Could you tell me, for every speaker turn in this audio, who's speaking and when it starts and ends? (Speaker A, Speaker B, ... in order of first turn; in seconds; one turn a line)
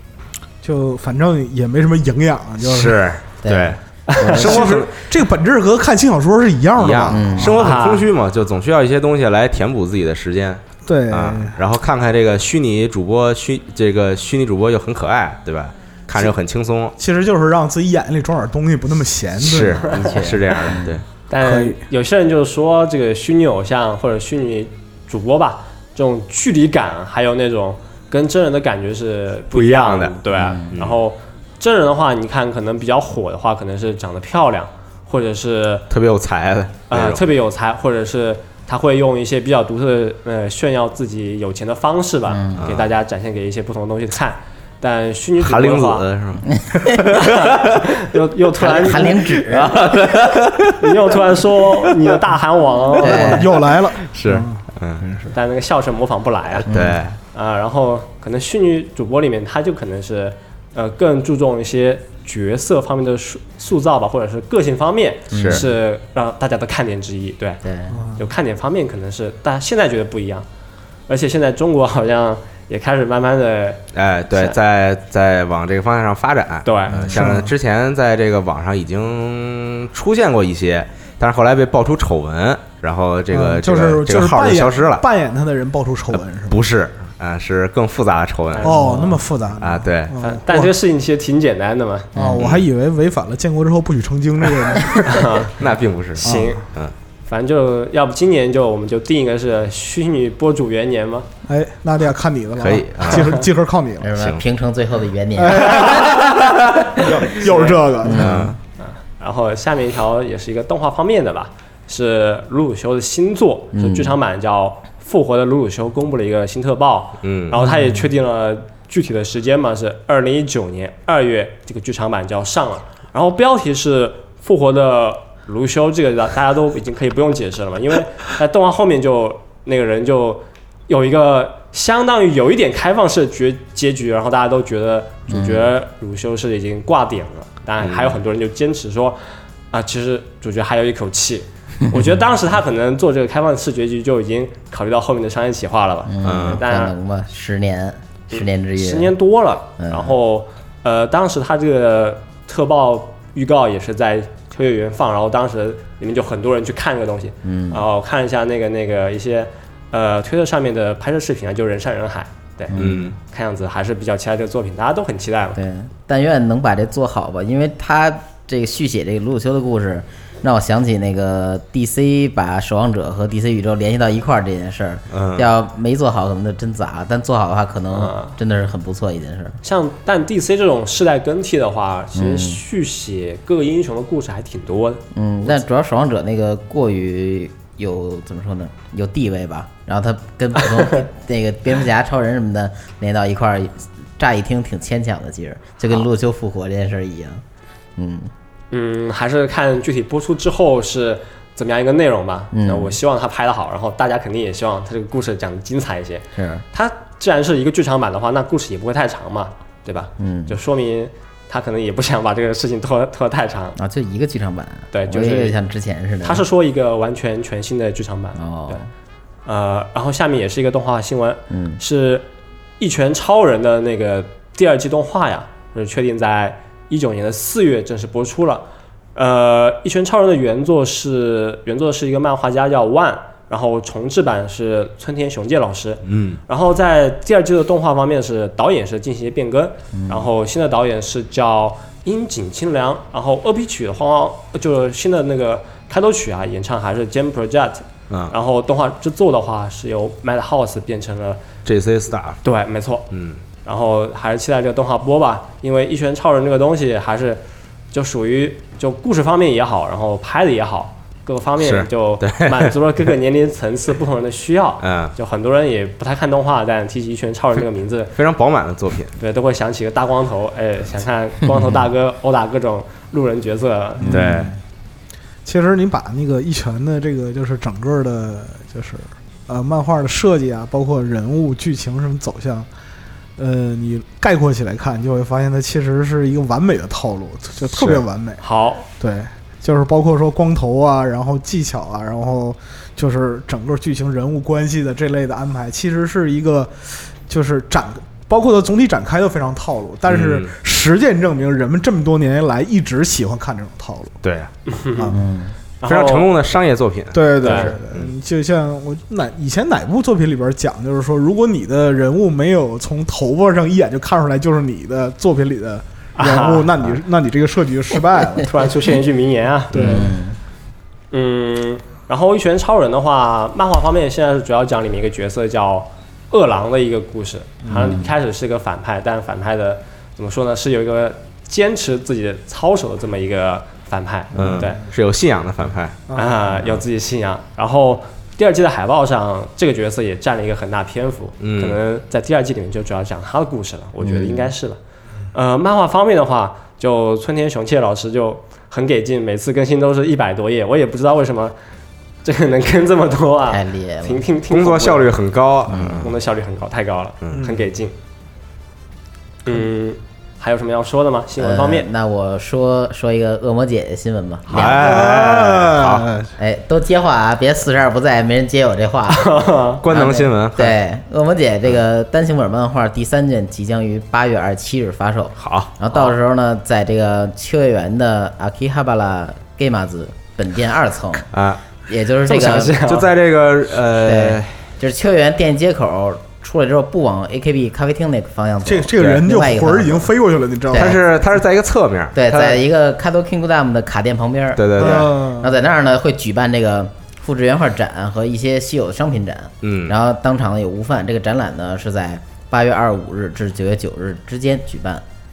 Speaker A: 0.6-3.0
Speaker B: 2.6-4.9
Speaker C: 3.4-4.7
Speaker D: 4.1-4.3
Speaker A: 4.3-7.6
Speaker B: 6.8-17.0
Speaker C: 7.1-7.6
Speaker D: 7.5-8.1
Speaker A: 10.9-11.6
Speaker A: 17.0-20.0
Speaker B: 19.4-21.1
Speaker C: 19.9-21.0
Speaker D: 21.3-35.9
Speaker A: 21.4-21.8
Speaker B: 29.5-30.2
Speaker C: 30.3-30.8
Speaker B: 30.7-31.0
Speaker B: 35.9-37.2
Speaker D: 36.9-46.1
Speaker C: 42.3-42.7
Speaker B: 42.6-42.9
Speaker B: 45.4-47.9
Speaker C: 46.6-47.0
Speaker D: 47.1-49.5
Speaker C: 48.6-49.9
Speaker B: 49.4-51.2
Speaker D: 50.8-53.5
Speaker A: 53.0-55.3
Speaker C: 53.0-53.6
Speaker B: 54.0-55.1
Speaker D: 55.3-56.7
Speaker C: 56.7-57.0
Speaker B: 56.7-57.1
Speaker D: 57.3-67.6
Speaker C: 65.3-65.7
Speaker B: 65.3-65.6
Speaker C: 67.6-68.0
Speaker A: 67.9-68.2
Speaker D: 68.2-70.5
Speaker D: 71.1-74.6
Speaker B: 73.9-85.0
Speaker D: 76.7-77.1
Speaker A: 76.9-77.5
Speaker A: 83.3-86.6
Speaker B: 86.1-88.8
Speaker D: 88.5-89.2
Speaker A: 88.6-90.7
Speaker B: 89.6-90.2
Speaker D: 90.2-92.1
Speaker C: 92.2-92.4
Speaker A: 92.2-95.3
Speaker B: 92.2-92.7
Speaker D: 95.0-95.5
Speaker B: 95.6-96.9
Speaker D: 96.2-96.6
Speaker A: 96.2-96.5
Speaker D: 97.3-101.3
Speaker A: 101.5-104.1
Speaker B: 102.6-103.4
Speaker C: 104.0-106.3
Speaker A: 105.4-108.5
Speaker D: 107.4-107.8
Speaker C: 108.0-108.6
Speaker B: 108.1-108.6
Speaker D: 108.8-139.2
Speaker C: 113.7-114.2
Speaker B: 117.2-117.6
Speaker C: 135.3-135.7
Speaker B: 137.8-138.2
Speaker D: 139.7-146.9
Speaker C: 146.1-149.1
Speaker B: 146.2-146.6
Speaker D: 148.3-165.6
Speaker C: 149.8-150.2
Speaker C: 157.4-157.8
Speaker C: 162.7-163.2
Speaker B: 162.8-163.2
Speaker C: 165.6-179.6
Speaker B: 175.1-175.5
Speaker D: 177.9-178.4
Speaker D: 179.6-185.0
Speaker C: 182.2-182.6
Speaker C: 185.1-197.4
Speaker C: 198.0-198.3
Speaker D: 198.7-213.8
Speaker C: 202.5-203.0
Speaker C: 206.3-206.6
Speaker C: 210.2-210.6
Speaker C: 213.8-216.4
Speaker D: 214.9-215.6
Speaker D: 216.2-218.8
Speaker C: 218.4-218.8
Speaker D: 219.5-222.2
Speaker C: 221.5-221.8
Speaker D: 222.8-251.4
Speaker B: 236.1-236.4
Speaker C: 239.9-240.3
Speaker B: 251.7-252.4
Speaker D: 252.4-253.1
Speaker B: 253.1-253.4
Speaker D: 253.6-268.1
Speaker B: 261.6-262.7
Speaker B: 264.8-265.1
Speaker B: 268.1-269.1
Speaker D: 269.2-274.2
Speaker A: 274.0-274.6
Speaker B: 274.0-274.6
Speaker A: 275.4-282.7
Speaker A: 283.4-288.4
Speaker B: 287.7-288.0
Speaker D: 288.4-288.9
Speaker A: 289.0-304.2
Speaker B: 300.1-300.5
Speaker B: 304.2-304.5
Speaker D: 304.7-305.1
Speaker A: 305.0-305.2
Speaker C: 305.1-305.5
Speaker D: 305.8-306.3
Speaker B: 305.9-308.1
Speaker A: 307.1-318.5
Speaker D: 307.4-307.8
Speaker D: 316.2-316.7
Speaker D: 318.4-320.1
Speaker A: 319.7-320.2
Speaker C: 319.8-320.4
Speaker D: 321.1-334.8
Speaker A: 327.7-327.9
Speaker C: 327.7-328.1
Speaker B: 334.4-336.0
Speaker C: 334.4-334.6
Speaker D: 336.1-344.8
Speaker B: 341.4-341.8
Speaker C: 344.0-344.5
Speaker D: 345.3-351.5
Speaker D: 352.2-355.1
Speaker C: 353.5-354.2
Speaker B: 354.5-356.2
Speaker C: 355.7-356.1
Speaker D: 355.9-357.9
Speaker B: 357.2-357.5
Speaker A: 357.4-357.6
Speaker D: 359.4-361.9
Speaker C: 361.4-365.1
Speaker B: 364.5-366.1
Speaker A: 364.6-366.3
Speaker C: 366.4-381.3
Speaker D: 369.1-369.8
Speaker B: 369.8-370.8
Speaker B: 375.4-375.7
Speaker B: 381.3-381.6
Speaker C: 381.9-382.9
Speaker D: 382.3-383.1
Speaker B: 382.8-384.5
Speaker C: 384.0-390.1
Speaker A: 388.6-391.0
Speaker C: 390.7-391.0
Speaker B: 390.7-392.2
Speaker C: 392.1-405.0
Speaker B: 394.6-395.1
Speaker A: 394.8-395.5
Speaker B: 399.6-399.9